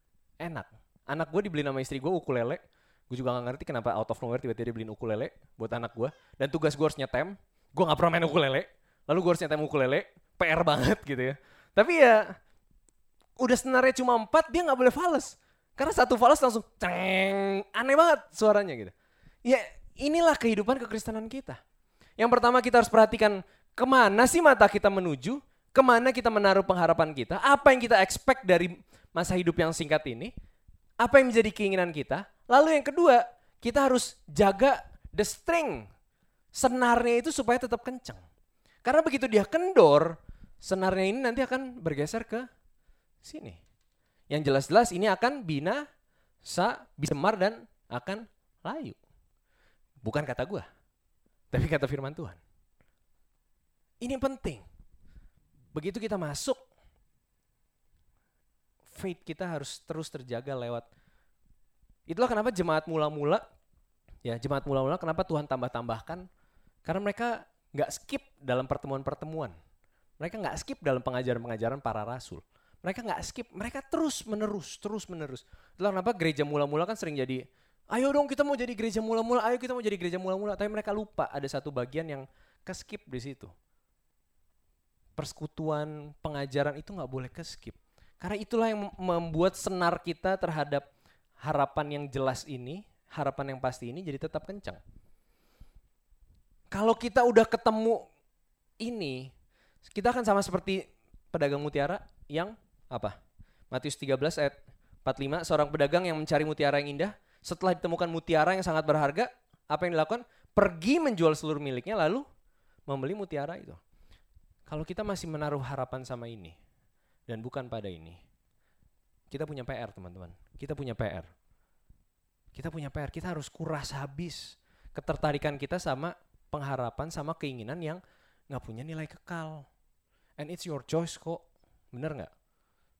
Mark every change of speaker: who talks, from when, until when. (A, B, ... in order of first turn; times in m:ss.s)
0:00.4-0:12.3 A
0:13.4-0:18.9 A
0:19.4-0:21.6 A
0:22.2-0:30.3 A
0:31.0-0:35.9 A
0:36.5-0:38.2 A
0:38.8-0:42.5 A
0:43.2-0:43.6 A
0:44.3-0:45.8 A
0:46.4-0:49.0 A
0:50.0-0:50.7 A
0:51.5-0:52.4 A
0:54.0-0:54.6 A
0:55.7-0:56.6 A
0:58.9-1:00.8 A
1:02.1-1:03.4 A
1:04.2-1:06.2 A
1:06.8-1:09.5 A
1:10.2-1:23.5 A
1:25.2-1:30.9 A
1:31.4-1:34.8 A
1:36.7-1:38.0 A
1:38.8-1:39.3 A
1:39.9-1:40.8 A
1:41.3-1:43.1 A
1:43.7-1:52.2 A
1:52.9-1:53.8 A
1:54.7-1:56.6 A
1:57.3-1:58.2 A
1:59.3-2:01.3 A
2:02.5-2:09.7 A
2:10.4-2:12.3 A